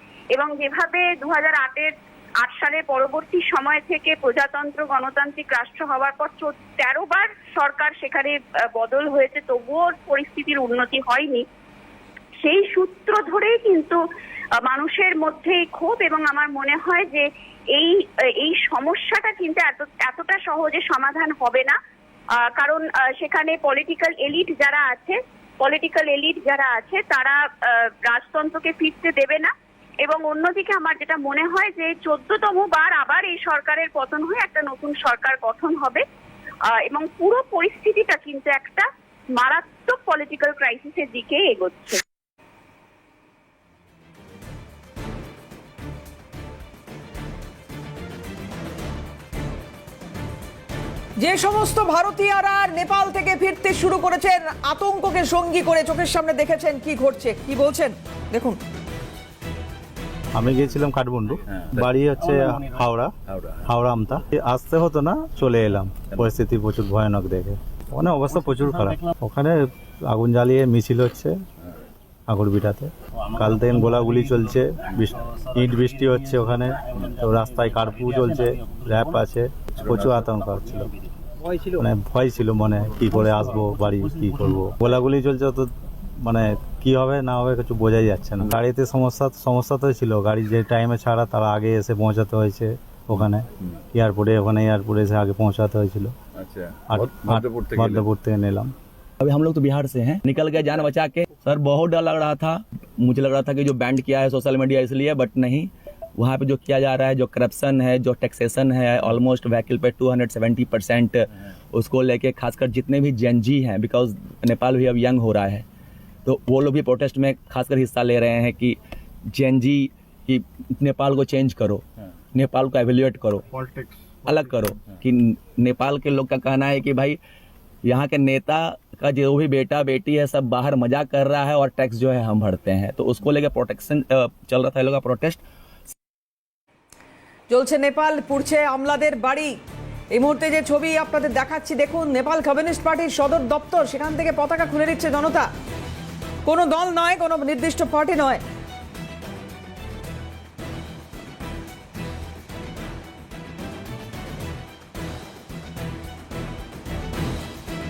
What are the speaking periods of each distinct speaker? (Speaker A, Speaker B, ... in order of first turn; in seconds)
Speaker A: 0.3-11.4, 12.4-14.0, 14.6-21.8, 22.4-29.5, 30.0-36.0, 36.7-42.0
Speaker B: 51.2-58.6, 137.5-139.6, 140.1-145.5, 146.4-148.4
Speaker C: 60.3-63.1, 63.6-71.4, 72.3-80.9, 81.7-96.1, 96.9-98.7
Speaker D: 61.5-61.9, 63.3-63.7, 96.3-98.1
Speaker E: 99.2-115.6, 116.2-118.8, 119.3-123.5, 124.2-127.2, 127.8-135.4